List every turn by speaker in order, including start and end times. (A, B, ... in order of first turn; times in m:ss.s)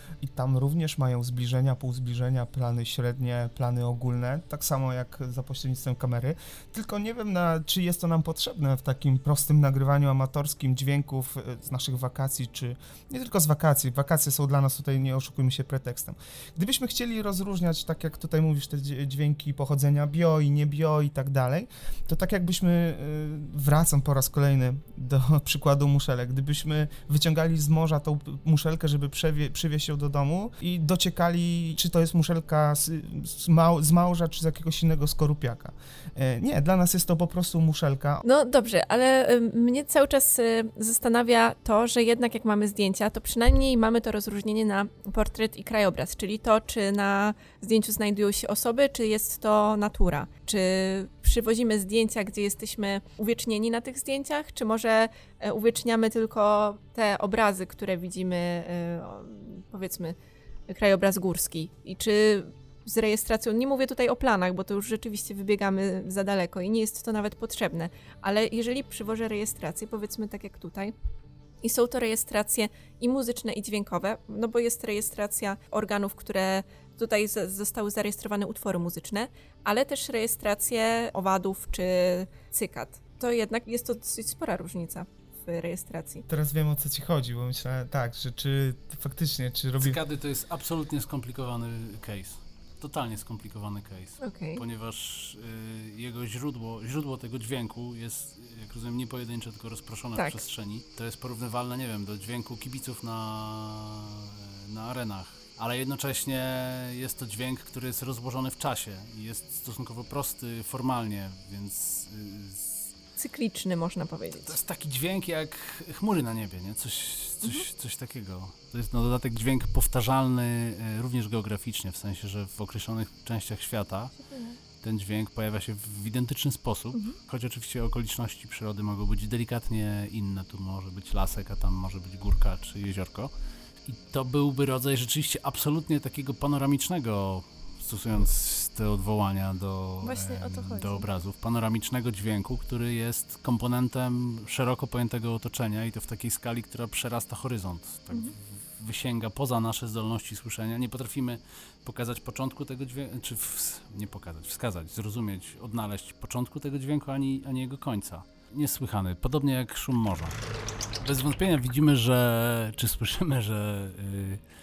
0:00.2-0:38.2 A
0:38.2-1:00.2 B
1:00.7-1:10.9 B
1:11.6-1:26.3 B
1:26.3-1:30.0 A
1:29.8-1:52.9 C
1:34.2-1:34.6 B
1:40.2-1:40.4 B
1:53.2-1:54.6 B
1:54.4-2:04.1 C
2:04.2-2:04.6 B
2:04.8-2:13.3 C
2:13.9-2:40.4 C
2:20.0-2:21.1 B
2:41.0-2:44.4 C